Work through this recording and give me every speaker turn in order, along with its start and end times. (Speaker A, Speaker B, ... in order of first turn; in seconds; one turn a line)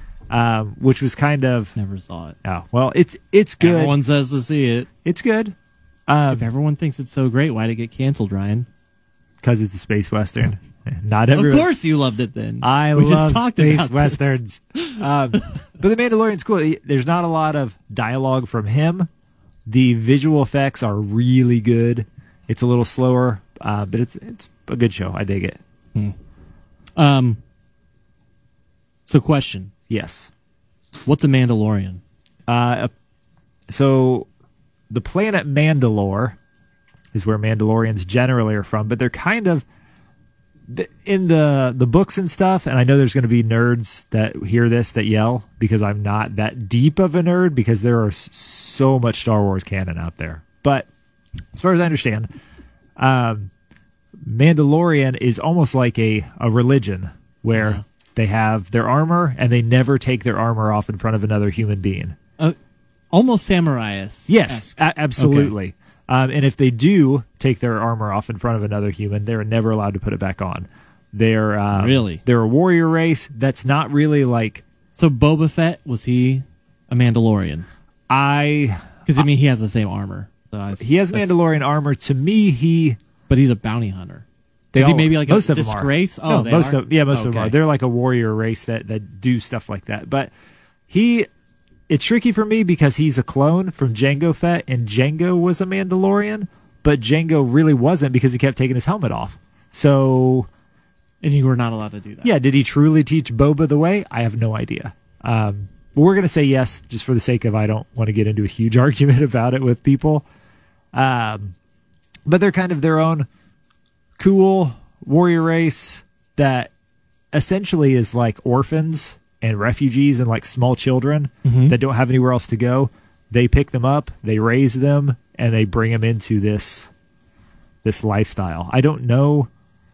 Speaker A: 0.3-1.8
Speaker B: 1.8-2.4
Speaker A: 2.4-4.0
Speaker B: 3.6-4.9
Speaker A: 5.0-5.5
Speaker A: 6.1-6.5
Speaker B: 6.3-8.7
Speaker A: 9.4-11.7
Speaker B: 11.3-15.4
Speaker A: 12.6-19.1
Speaker A: 19.7-25.6
Speaker B: 27.0-27.4
Speaker B: 29.1-29.7
Speaker A: 29.9-30.3
Speaker B: 31.1-32.0
Speaker A: 32.5-32.9
Speaker A: 33.7-34.3
Speaker A: 34.9-36.4
Speaker A: 37.1-39.6
Speaker A: 40.7-50.9
Speaker A: 51.5-52.3
Speaker A: 53.0-53.5
Speaker A: 54.2-62.2
Speaker B: 57.5-57.8
Speaker B: 63.1-65.5
Speaker A: 64.3-74.6
Speaker B: 71.7-72.2
Speaker B: 75.0-77.7
Speaker A: 78.1-79.2
Speaker B: 79.1-81.3
Speaker A: 80.8-83.0
Speaker B: 83.3-84.2
Speaker A: 84.7-90.3
Speaker B: 84.8-87.6
Speaker A: 90.9-91.3
Speaker A: 91.9-100.5
Speaker B: 101.2-102.3
Speaker A: 102.2-110.3
Speaker A: 110.9-111.5
Speaker A: 112.3-113.3
Speaker A: 114.2-116.7
Speaker A: 117.3-126.9
Speaker B: 121.5-121.8
Speaker A: 127.8-129.5